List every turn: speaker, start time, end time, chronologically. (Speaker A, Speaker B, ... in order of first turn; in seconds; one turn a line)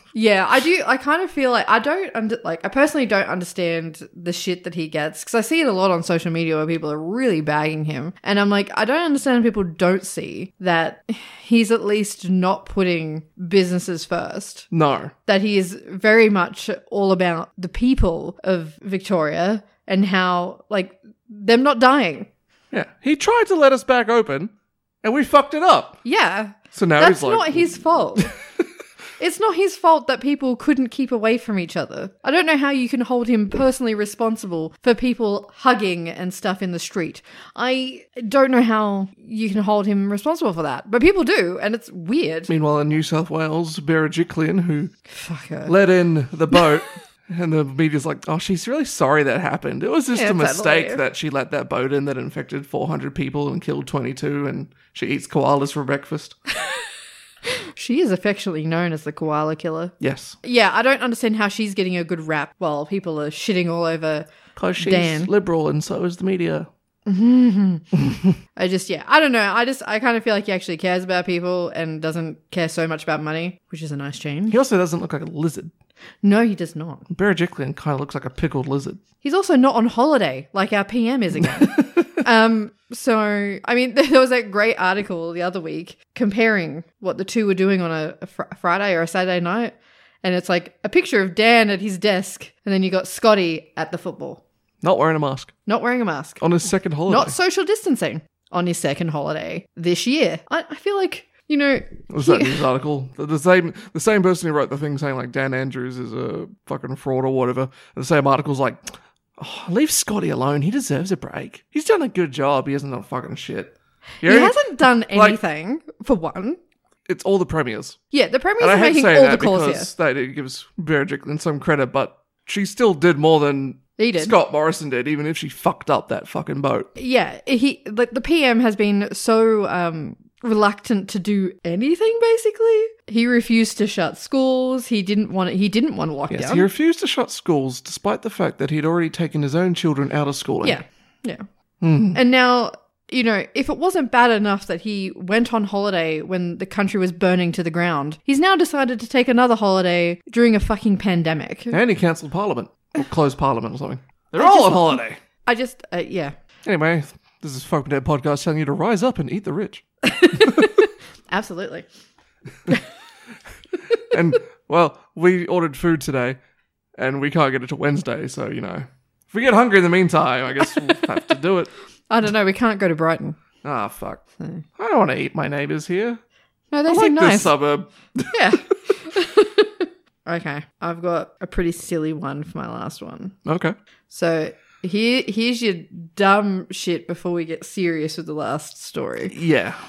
Speaker A: 0.1-14.7
Speaker B: 14.7-15.1
Speaker A: 15.2-22.3
Speaker B: 22.7-24.5
Speaker B: 25.0-26.0
Speaker A: 26.0-28.3
Speaker B: 26.7-28.6
Speaker A: 29.2-42.5
Speaker B: 42.5-44.9
Speaker A: 45.1-45.7
Speaker B: 45.7-56.4
Speaker A: 50.1-51.0
Speaker A: 57.5-65.3
Speaker B: 60.0-60.4
Speaker B: 64.5-66.7
Speaker A: 67.0-67.9
Speaker A: 68.5-74.6
Speaker B: 74.5-75.7
Speaker A: 76.2-77.1
Speaker B: 77.1-79.0
Speaker A: 79.2-94.4
Speaker B: 81.5-82.0
Speaker B: 94.8-95.5
Speaker A: 95.7-96.4
Speaker B: 96.4-97.3
Speaker A: 97.1-102.6
Speaker B: 102.1-108.8
Speaker B: 109.4-114.6
Speaker A: 114.2-116.6
Speaker B: 115.1-115.4
Speaker B: 117.0-118.0
Speaker A: 118.1-119.9
Speaker B: 118.6-126.9
Speaker A: 124.0-124.3
Speaker A: 127.0-136.7
Speaker B: 136.3-140.8
Speaker A: 140.6-141.4
Speaker B: 141.8-142.2
Speaker A: 142.1-151.8
Speaker B: 151.7-155.2
Speaker A: 154.4-156.3
Speaker B: 156.6-160.7
Speaker A: 160.0-161.8
Speaker B: 163.9-166.4
Speaker B: 167.0-171.7
Speaker A: 172.1-173.4
Speaker B: 173.6-174.2
Speaker B: 174.8-176.2
Speaker A: 176.7-177.5
Speaker B: 176.9-178.4
Speaker A: 178.3-183.3
Speaker B: 183.4-183.7
Speaker A: 184.1-189.3
Speaker B: 189.3-189.8